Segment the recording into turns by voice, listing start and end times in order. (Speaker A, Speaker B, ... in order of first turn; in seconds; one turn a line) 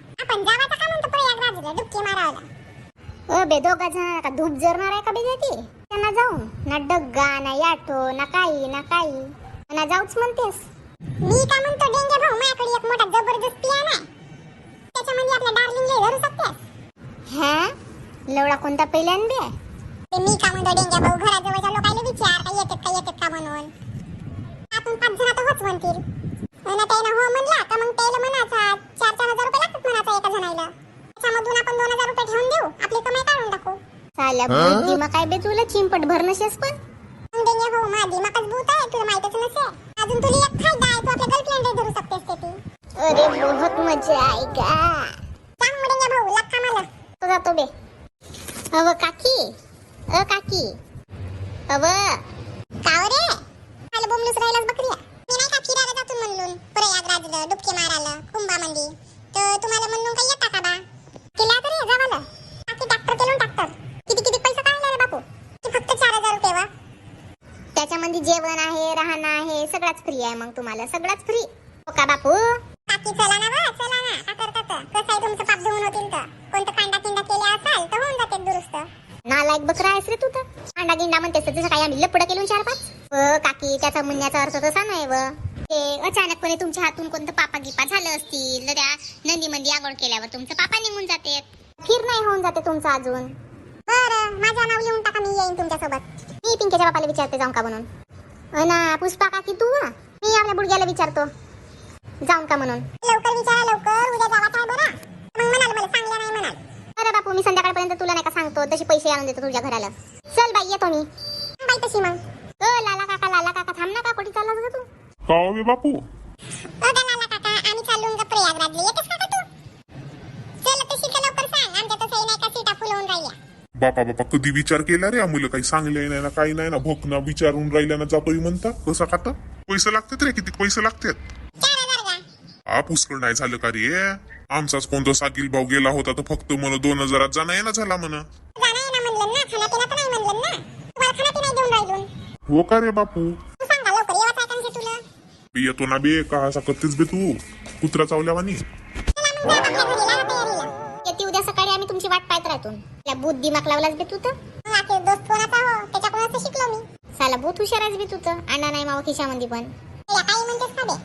Speaker A: 0.2-2.5
Speaker B: 3.3-10.7
Speaker A: 11.2-14.0
Speaker A: 14.9-16.6
Speaker B: 17.3-17.7
Speaker B: 18.3-19.5
Speaker A: 20.1-23.7
Speaker A: 24.7-26.0
Speaker A: 26.7-33.8
Speaker B: 34.2-36.7
Speaker A: 37.3-42.6
Speaker B: 43.0-45.1
Speaker A: 45.6-46.9
Speaker B: 47.2-47.7
Speaker B: 48.7-49.5
Speaker B: 50.1-50.8
Speaker B: 51.7-52.2
Speaker A: 52.8-53.4
Speaker A: 53.9-60.8
Speaker A: 61.4-66.7
Speaker B: 67.8-72.6
Speaker A: 72.9-78.9
Speaker B: 79.3-93.3
Speaker A: 93.9-96.0
Speaker B: 96.4-97.9
Speaker B: 98.5-101.3
Speaker B: 102.2-102.9
Speaker A: 103.0-106.6
Speaker B: 107.0-111.1
Speaker A: 111.6-112.2
Speaker B: 112.6-114.8
Speaker C: 115.3-116.0
Speaker A: 116.8-119.5
Speaker A: 120.6-123.4
Speaker C: 123.8-131.2
Speaker A: 131.6-132.2
Speaker C: 132.7-138.2
Speaker A: 138.6-142.1
Speaker C: 142.5-143.4
Speaker A: 143.6-145.0
Speaker C: 145.5-148.6
Speaker A: 149.2-150.7
Speaker B: 151.1-154.3
Speaker A: 154.7-156.8
Speaker B: 157.2-159.7
Speaker A: 160.1-161.0